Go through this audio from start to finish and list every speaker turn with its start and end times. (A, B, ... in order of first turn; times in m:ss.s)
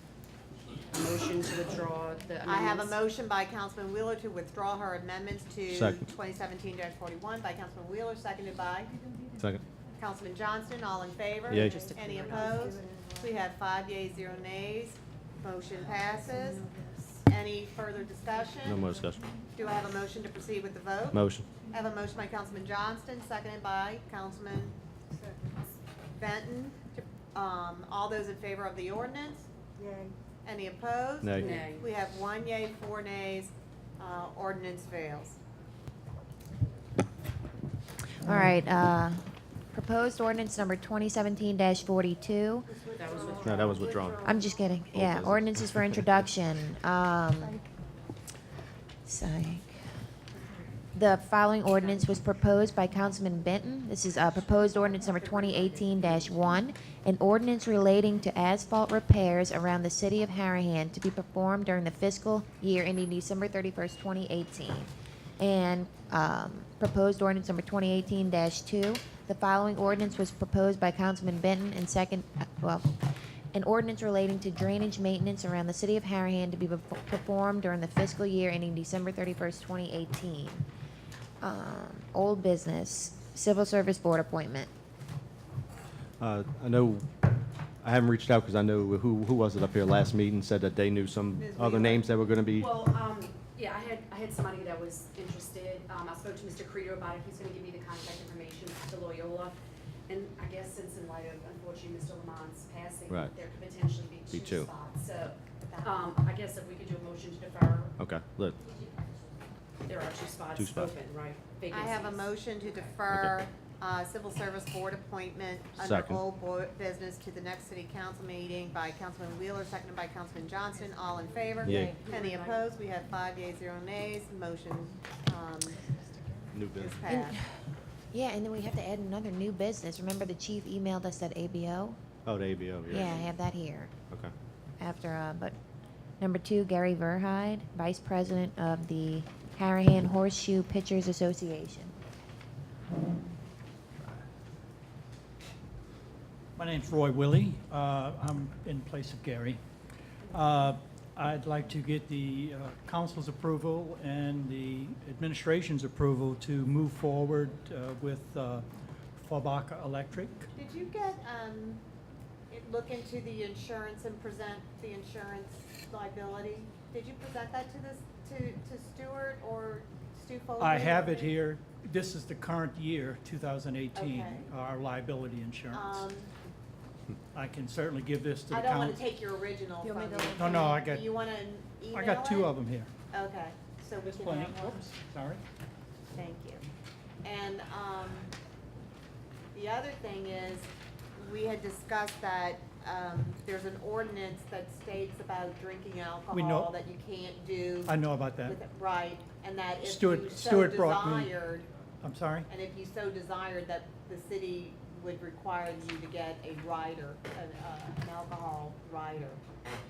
0:00.9-0:03.0 A
0:02.5-0:08.9 B
0:05.7-0:06.0 C
0:09.4-0:09.6 C
0:10.0-0:16.7 B
0:11.5-0:11.8 C
0:11.6-0:12.7 A
0:11.7-0:13.3 D
0:16.2-0:17.1 D
0:17.3-0:18.9 B
0:18.6-0:19.2 C
0:19.6-0:24.8 B
0:21.1-0:21.5 C
0:25.2-0:25.7 D
0:26.2-0:29.5 B
0:29.8-0:30.1 D
0:30.4-0:35.4 B
0:31.2-0:31.6 C
0:31.4-0:31.9 A
0:38.2-0:42.7 E
0:42.8-0:44.2 A
0:43.0-0:44.4 D
0:43.4-0:44.3 C
0:44.2-0:47.6 E
0:44.9-0:46.2 C
0:49.1-0:49.8 E
0:50.9-1:20.6 E
0:54.9-0:56.3 A
1:21.4-1:24.7 E
1:26.2-1:27.1 C
1:27.8-1:32.7 C
1:31.4-1:32.2 B
1:32.6-1:39.6 A
1:40.1-1:47.9 A
1:43.1-1:43.3 C
1:44.3-1:44.7 C
1:45.6-1:46.0 B
1:48.0-1:48.6 C
1:49.8-1:52.9 A
1:50.6-1:50.9 C
1:51.7-2:05.8 B
1:55.8-1:56.2 C
2:01.6-2:02.0 C
2:02.0-2:02.5 A
2:06.5-2:07.1 C
2:06.8-2:07.4 B
2:07.1-2:07.6 E
2:08.1-2:12.0 E
2:12.2-2:13.3 C
2:12.9-2:13.9 E
2:14.8-2:15.6 E
2:16.2-2:22.0 E
2:26.6-2:29.6 F
2:30.3-2:38.7 F
2:39.2-2:40.5 F
2:40.6-2:41.8 B
2:42.5-2:51.4 B
2:50.6-2:56.1 F
2:54.0-2:54.5 B
2:55.7-2:56.3 B
2:57.3-2:59.0 F
2:58.5-3:02.6 B
2:59.8-3:00.8 D
3:00.3-3:01.2 F
3:01.9-3:02.9 F
3:03.1-3:04.8 B
3:04.0-3:05.4 F
3:06.1-3:06.7 B
3:07.2-3:08.3 B
3:09.5-3:21.7 B
3:16.3-3:16.7 F
3:17.9-3:18.6 F
3:19.8-3:21.4 F
3:22.0-3:22.5 F
3:22.5-3:29.4 B